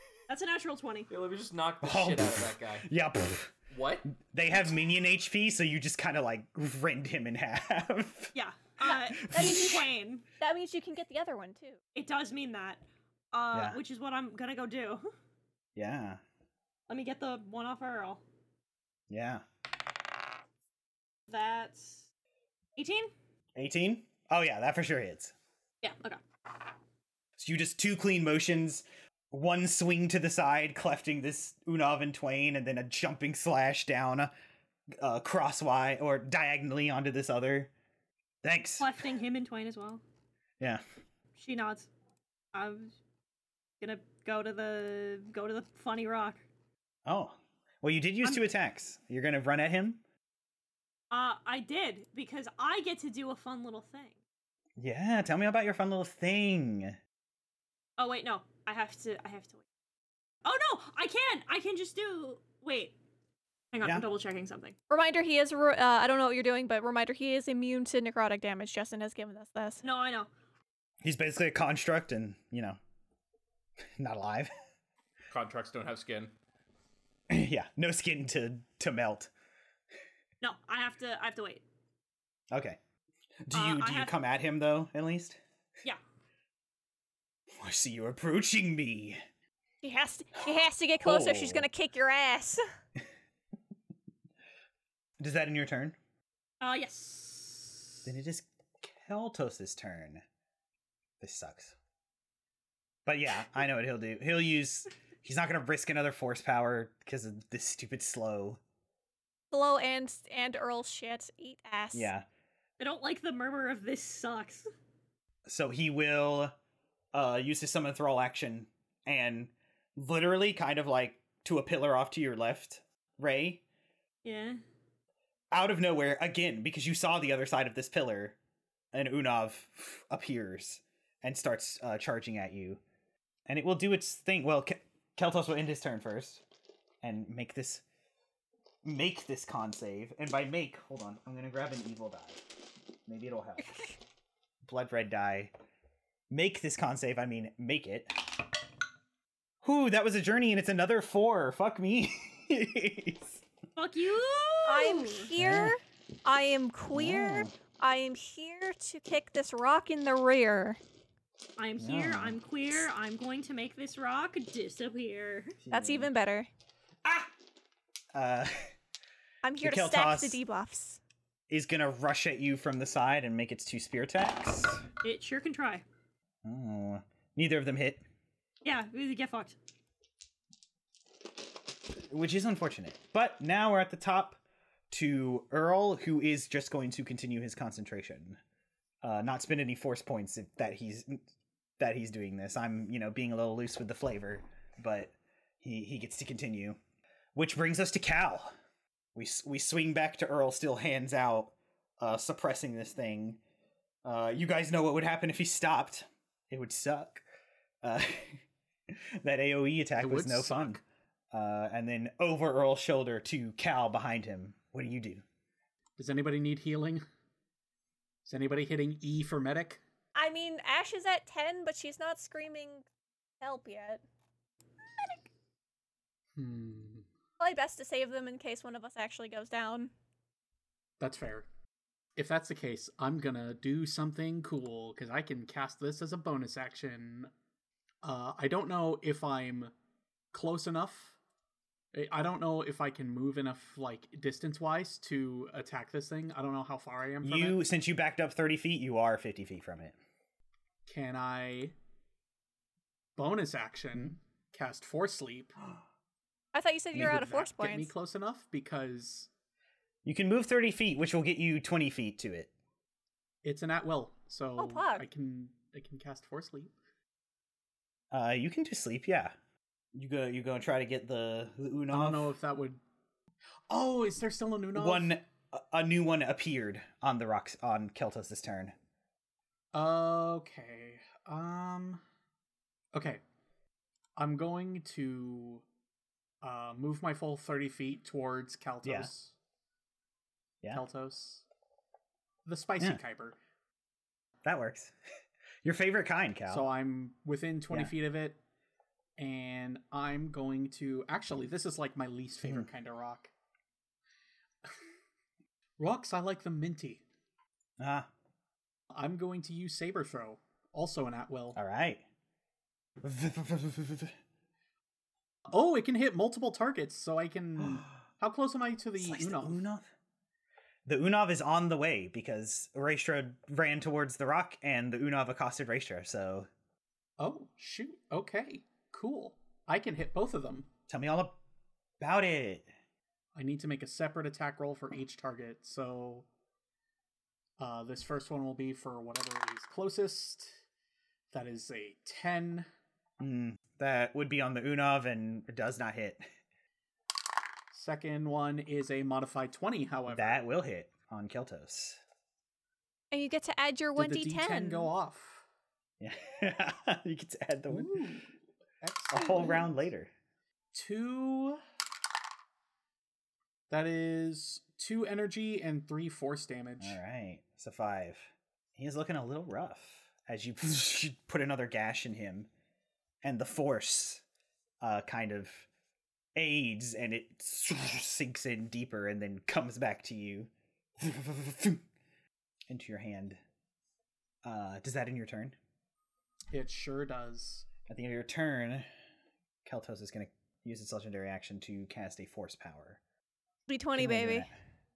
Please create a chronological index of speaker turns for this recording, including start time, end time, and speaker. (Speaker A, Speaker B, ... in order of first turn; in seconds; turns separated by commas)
Speaker A: 0.3-1.1, Speaker B: 1.1-2.9, Speaker C: 1.8-3.5, Speaker B: 3.7-4.1, Speaker C: 4.1-8.3, Speaker A: 8.3-10.2, Speaker C: 8.9-9.8, Speaker D: 8.9-9.8, Speaker D: 10.4-11.8, Speaker A: 11.9-15.1, Speaker C: 13.5-13.8, Speaker C: 15.8-16.2, Speaker A: 16.9-18.2, Speaker C: 19.1-19.4, Speaker A: 21.3-22.1, Speaker A: 22.8-23.1, Speaker C: 23.6-25.3, Speaker A: 25.8-26.2, Speaker C: 27.4-34.3, Speaker C: 35.0-37.7, Speaker C: 38.4-39.0, Speaker A: 38.8-40.0, Speaker A: 41.4-41.9, Speaker A: 42.5-43.0, Speaker A: 43.8-46.4, Speaker C: 47.0-50.0, Speaker A: 51.1-54.2, Speaker C: 54.8-57.0, Speaker A: 58.0-59.6, Speaker A: 60.4-63.0, Speaker A: 63.7-64.7, Speaker D: 64.9-69.8, Speaker A: 69.8-70.3, Speaker C: 71.0-72.8, Speaker C: 74.0-74.5, Speaker B: 75.3-76.3, Speaker C: 77.3-79.3, Speaker A: 80.4-81.6, Speaker C: 82.5-82.8, Speaker C: 83.5-85.4, Speaker A: 83.5-84.1, Speaker C: 87.5-89.2, Speaker D: 89.8-92.6, Speaker C: 91.0-91.7, Speaker C: 95.2-96.0, Speaker A: 96.6-98.0, Speaker C: 98.0-100.2, Speaker C: 101.2-101.7, Speaker C: 103.0-108.6, Speaker D: 109.5-112.1, Speaker C: 111.9-112.2, Speaker A: 112.8-114.7, Speaker C: 115.5-116.5, Speaker C: 117.1-123.6, Speaker A: 124.2-124.6, Speaker C: 125.5-128.4, Speaker C: 128.9-132.8, Speaker C: 133.5-136.4, Speaker C: 137.0-137.8, Speaker C: 138.8-143.9, Speaker C: 144.6-145.5, Speaker C: 146.3-148.4, Speaker C: 149.6-153.4, Speaker A: 153.8-155.3, Speaker D: 154.6-160.8, Speaker C: 155.4-155.8, Speaker C: 156.9-157.5, Speaker A: 161.6-165.6, Speaker C: 161.8-162.4, Speaker C: 165.6-166.1, Speaker D: 165.7-166.5, Speaker C: 168.1-168.7, Speaker D: 169.4-171.0, Speaker C: 169.6-170.4, Speaker C: 171.5-174.8, Speaker A: 175.0-175.8, Speaker C: 176.4-178.0, Speaker A: 178.6-179.6, Speaker C: 182.0-184.4, Speaker C: 184.9-188.4, Speaker C: 189.0-191.2, Speaker C: 191.8-196.8, Speaker C: 197.3-198.5, Speaker C: 199.1-203.4, Speaker C: 204.0-207.2, Speaker C: 207.8-210.8, Speaker E: 210.0-210.8, Speaker C: 211.3-215.2, Speaker E: 216.0-217.0, Speaker E: 218.2-219.8, Speaker D: 220.2-222.8, Speaker D: 223.4-224.0, Speaker E: 226.3-227.1, Speaker D: 227.4-229.9, Speaker E: 231.0-231.5, Speaker E: 232.2-237.3, Speaker E: 238.0-239.7, Speaker E: 240.3-241.2, Speaker E: 241.9-247.6, Speaker C: 247.2-249.9, Speaker E: 250.8-251.7, Speaker E: 253.2-255.6, Speaker D: 256.5-257.9, Speaker E: 256.9-259.3, Speaker C: 260.0-262.5, Speaker E: 263.4-266.7, Speaker D: 264.6-265.1, Speaker C: 268.1-269.3, Speaker C: 269.9-272.3, Speaker E: 271.9-272.8, Speaker E: 273.7-275.2, Speaker C: 274.7-278.7, Speaker E: 279.7-282.0, Speaker E: 282.9-283.2, Speaker E: 284.2-285.6, Speaker E: 286.4-289.3, Speaker C: 288.8-289.1, Speaker E: 290.7-291.4, Speaker E: 292.4-293.4, Speaker C: 294.4-294.9, Speaker C: 295.6-296.7, Speaker E: 296.5-298.4, Speaker E: 299.2-303.3, Speaker E: 305.8-307.0, Speaker C: 307.8-308.1, Speaker E: 308.9-311.6, Speaker C: 311.6-312.0, Speaker C: 313.0-314.1, Speaker E: 315.5-319.6, Speaker C: 319.0-319.9, Speaker C: 320.9-326.5, Speaker E: 327.2-330.7, Speaker C: 330.9-331.4, Speaker C: 332.0-332.7, Speaker E: 333.3-336.2, Speaker E: 337.6-340.5, Speaker E: 341.3-342.7, Speaker C: 343.2-346.2, Speaker E: 347.7-350.4, Speaker C: 350.1-352.0, Speaker D: 353.1-354.9, Speaker E: 353.9-355.4, Speaker C: 356.0-358.0, Speaker E: 357.7-358.3, Speaker E: 358.8-359.7, Speaker C: 359.1-360.1, Speaker E: 360.7-361.6, Speaker E: 363.7-367.0, Speaker C: 366.8-372.5, Speaker C: 373.2-374.2, Speaker C: 374.8-375.7, Speaker C: 376.4-381.8, Speaker C: 382.7-383.4, Speaker C: 384.4-385.6, Speaker E: 386.5-387.7, Speaker C: 387.9-388.8, Speaker C: 389.6-393.0, Speaker D: 393.7-394.5, Speaker C: 394.0-394.5